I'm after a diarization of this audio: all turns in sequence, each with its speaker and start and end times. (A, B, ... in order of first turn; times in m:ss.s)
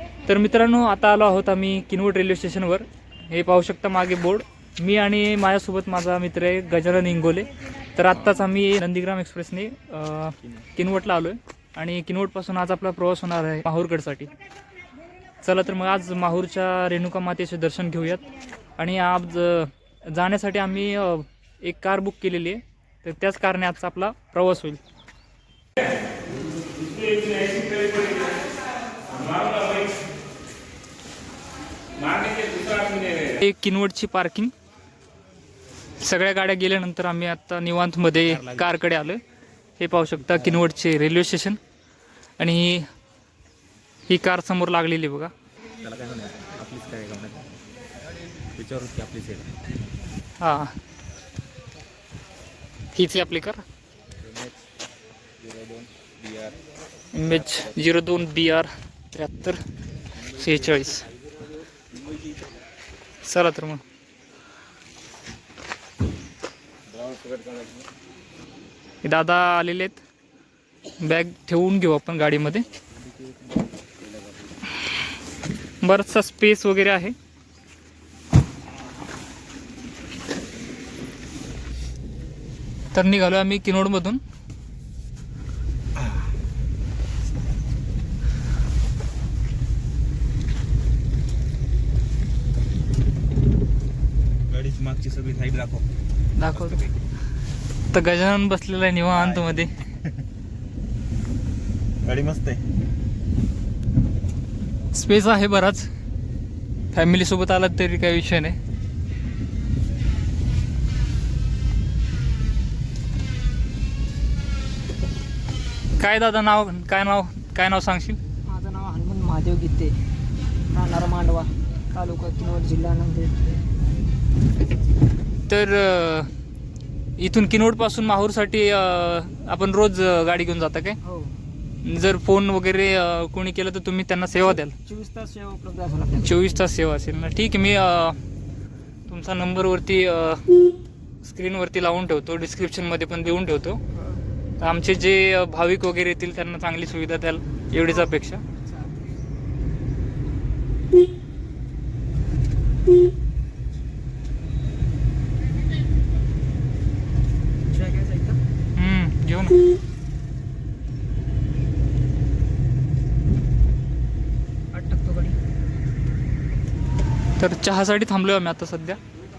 0:00.3-0:14.3 A
0:15.4-0:18.2 A
0:18.8-0:24.8 A
0:27.0-0:28.3 B
0:29.2-0:29.8 B
0:32.1-0:33.2 B
0:33.4-0:34.5 A
0:36.0-0:39.2 A
0:38.1-0:38.7 B
0:39.8-0:41.6 A
0:42.4-0:42.9 A
0:44.1-0:45.3 A
0:45.8-0:47.4 B
0:48.6-0:49.5 B
0:50.4-0:50.7 A
0:52.9-0:53.6 A
0:54.2-0:54.6 B
0:55.4-0:56.5 B
0:57.1-0:59.6 A
1:00.3-1:01.0 A
1:03.2-1:03.8 A
1:07.0-1:07.6 B
1:09.0-1:10.0 A
1:11.0-1:12.6 A
1:15.8-1:17.1 A
1:22.9-1:24.2 A
1:26.0-1:26.3 B
1:34.5-1:35.8 B
1:36.4-1:36.9 A
1:36.5-1:36.9 B
1:37.9-1:39.7 A
1:39.1-1:40.1 B
1:42.0-1:42.6 B
1:44.9-1:45.9 A
1:46.9-1:48.6 A
1:56.0-1:58.2 A
1:58.5-2:00.0 C
2:00.7-2:03.5 C
2:05.5-2:06.3 A
2:07.2-2:11.0 A
2:11.0-2:11.3 C
2:11.8-2:14.7 A
2:14.4-2:16.4 C
2:16.2-2:18.2 A
2:19.1-2:20.5 A
2:21.2-2:23.8 A
2:24.6-2:28.4 A
2:27.8-2:29.0 C
2:37.7-2:38.4 C
2:38.8-2:39.6 A
2:44.7-2:45.4 C
2:47.4-2:49.0 A